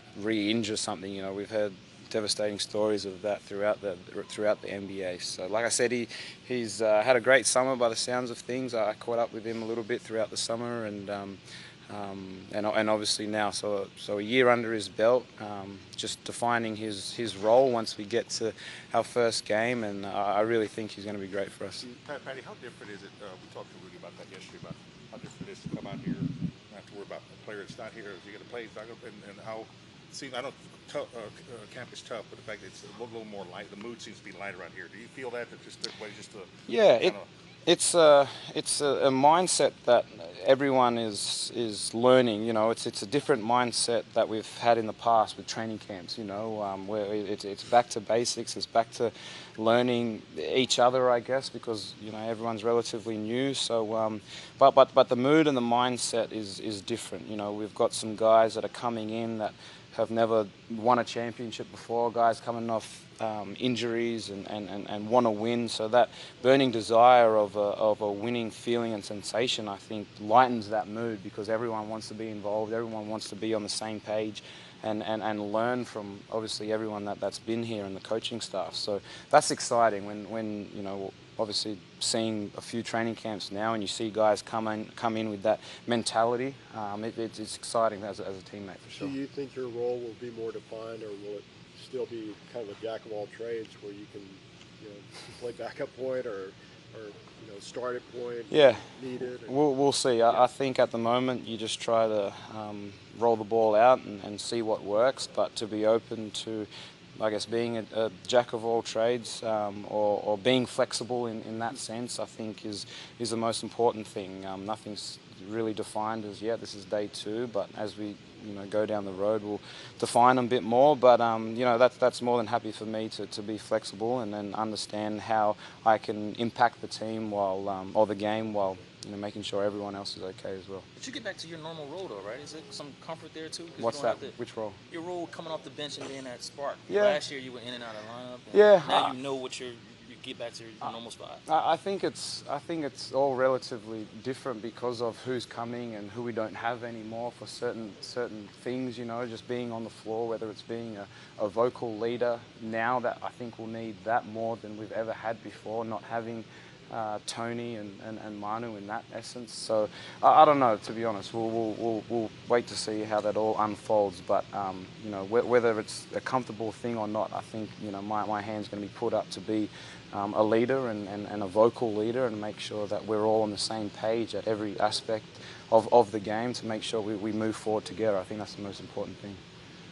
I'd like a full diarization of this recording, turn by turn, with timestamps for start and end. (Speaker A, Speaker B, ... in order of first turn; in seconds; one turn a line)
Speaker A: 0.1-21.9
Speaker B: 21.9-36.5
Speaker A: 36.7-89.2
Speaker C: 89.0-99.6
Speaker A: 98.5-98.8
Speaker A: 99.5-130.9
Speaker D: 131.0-134.3
Speaker A: 133.8-134.8
Speaker D: 134.9-141.4
Speaker A: 136.9-137.2
Speaker A: 138.5-139.2
Speaker A: 141.5-179.4